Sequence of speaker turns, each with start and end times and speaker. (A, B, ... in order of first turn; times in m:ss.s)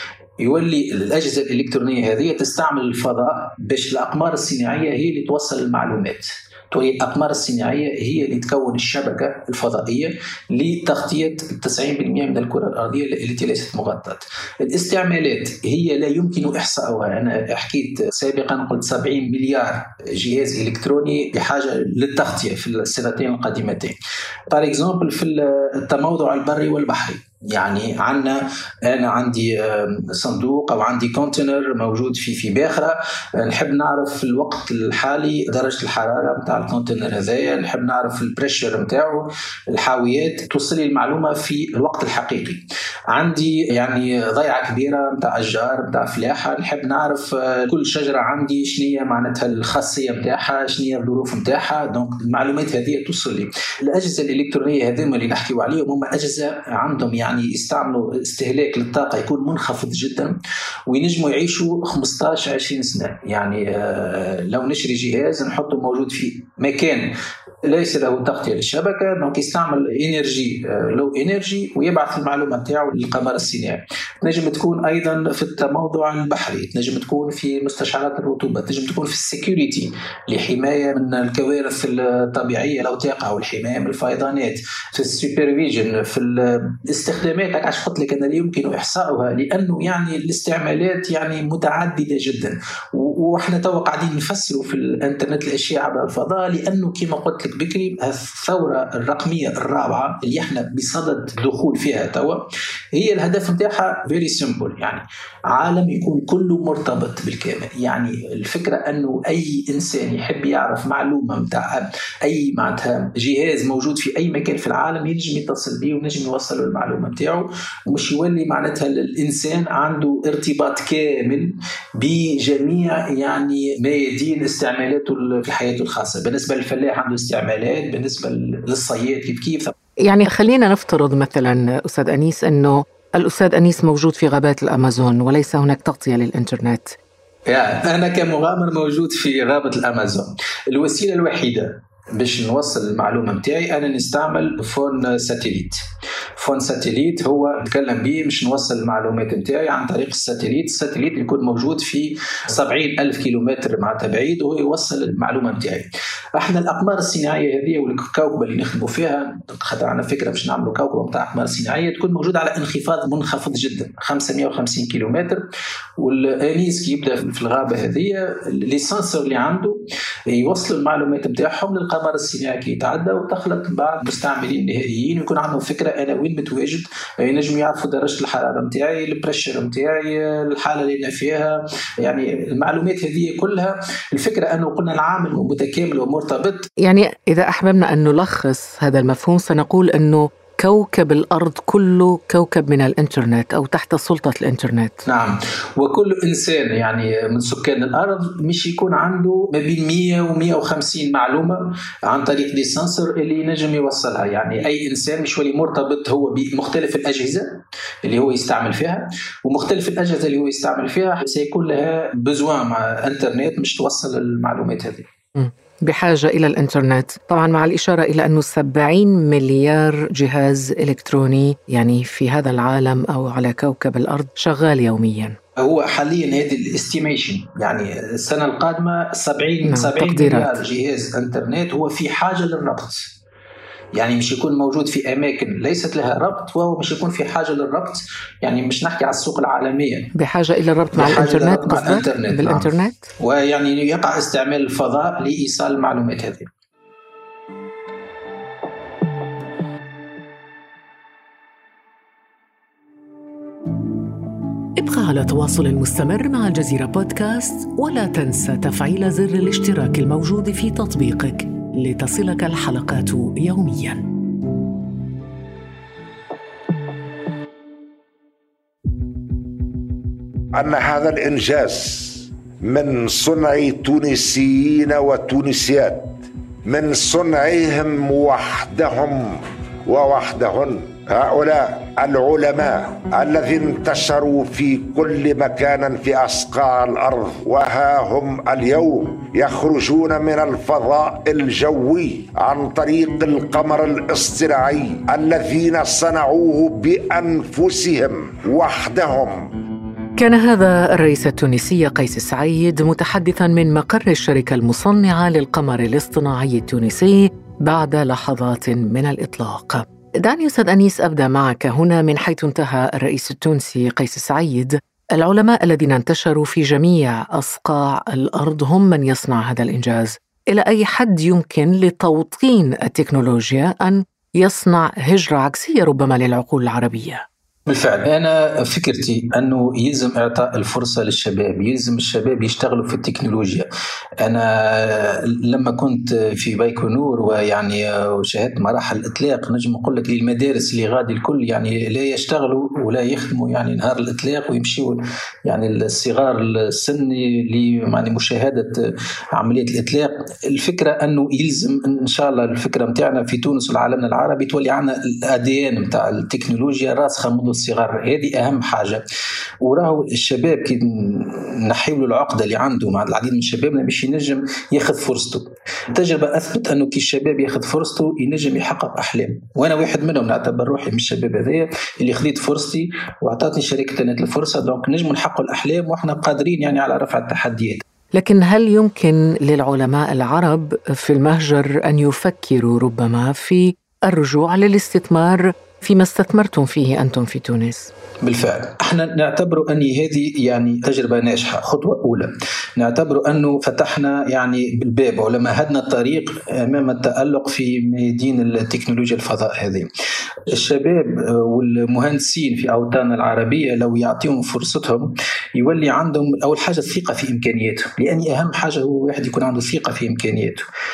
0:00.4-0:24.0 A
0:24.5-1:00.4 A
1:00.9-1:07.1 A
1:07.6-1:42.4 A
1:42.9-2:09.7 A
2:10.0-2:17.0 B
2:17.5-2:25.8 A
2:26.4-2:45.4 A
2:46.0-3:06.7 A
3:06.8-3:15.0 B
3:15.1-3:35.1 A
3:35.4-3:45.4 B
3:45.6-3:53.1 A
3:49.6-3:50.6 B
3:54.0-4:00.1 A
4:00.2-4:03.1 B
4:01.0-4:06.5 A
4:14.8-4:24.1 B
4:30.5-4:59.5 C
5:00.2-5:27.2 B
5:27.7-5:33.7 A
5:34.2-5:48.8 A
5:49.3-5:59.0 A
5:59.6-6:17.8 A
6:18.1-6:27.9 B
6:28.2-6:39.9 A
6:40.5-6:50.6 A